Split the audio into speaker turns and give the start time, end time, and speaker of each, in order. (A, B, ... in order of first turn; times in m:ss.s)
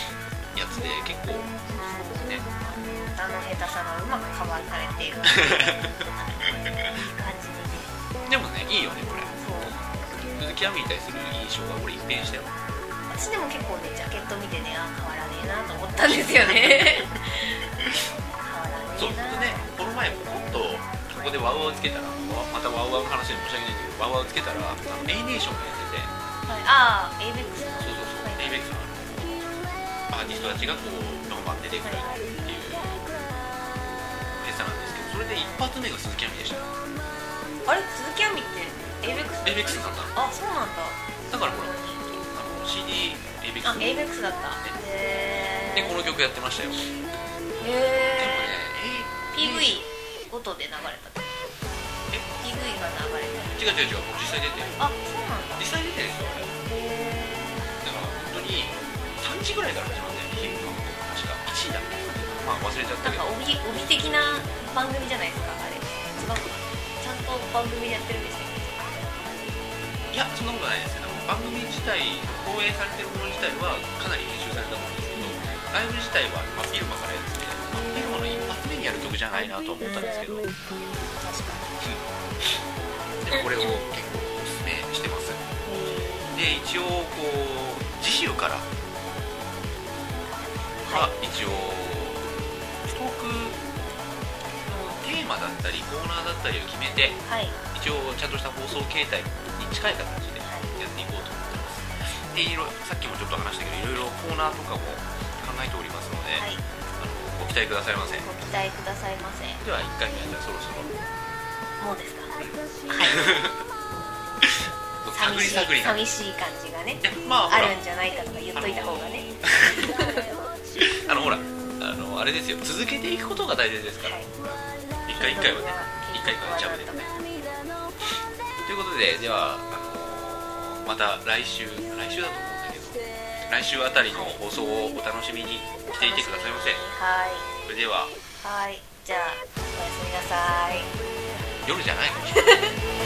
0:00.6-0:01.6 A
0:01.7-0:07.9 B
0:05.3-0:05.9 A
0:08.2-0:09.4 A
0:09.4-0:10.0 B
0:10.3-0:12.5 A
0:13.1-0:19.7 B
0:16.6-0:16.9 A
0:19.0-0:26.1 A
0:26.5-0:28.6 B
0:27.8-0:29.6 A
0:30.1-0:33.0 A
0:31.8-0:32.2 B
0:34.3-0:36.7 A
0:35.4-0:35.6 B
0:37.7-0:42.0 B
0:39.4-0:40.2 A
0:41.3-0:44.0 A
0:43.6-0:46.0 B
0:45.7-0:46.9 A
0:47.6-0:48.6 B
0:48.2-0:49.9 A
0:49.3-0:51.3 B
0:52.4-0:53.6 B
0:53.6-0:54.8 A
0:54.8-0:55.7 B
0:55.6-0:56.5 A
0:56.6-0:57.7 B
0:57.8-1:03.3 A
1:03.0-1:09.1 B
1:10.1-1:20.5 A
1:15.2-1:15.6 B
1:19.8-1:20.1 B
1:20.9-1:21.7 B
1:23.2-1:25.4 A
1:23.3-1:23.8 B
1:25.7-1:26.4 B
1:26.3-1:28.7 A
1:30.8-1:31.1 B
1:30.8-1:33.6 A
1:34.7-1:37.2 A
1:37.3-1:37.6 B
1:37.7-1:46.5 A
1:40.4-1:40.7 B
1:46.4-1:46.6 B
1:47.0-1:48.3 A
1:48.2-1:49.6 B
1:49.6-1:51.0 A
1:51.8-1:52.3 B
1:52.4-1:53.6 A
1:52.9-1:53.4 B
1:54.4-1:56.1 A
1:55.1-2:00.3 B
1:57.0-1:57.8 A
1:58.6-1:59.9 A
2:00.8-2:04.2 A
2:04.0-2:04.3 B
2:05.1-2:07.1 A
2:05.1-2:07.1 B
2:08.6-2:16.8 A
2:14.1-2:14.4 B
2:15.9-2:17.5 B
2:17.6-2:18.1 A
2:18.4-2:20.9 B
2:21.6-2:22.7 A
2:22.4-2:22.8 B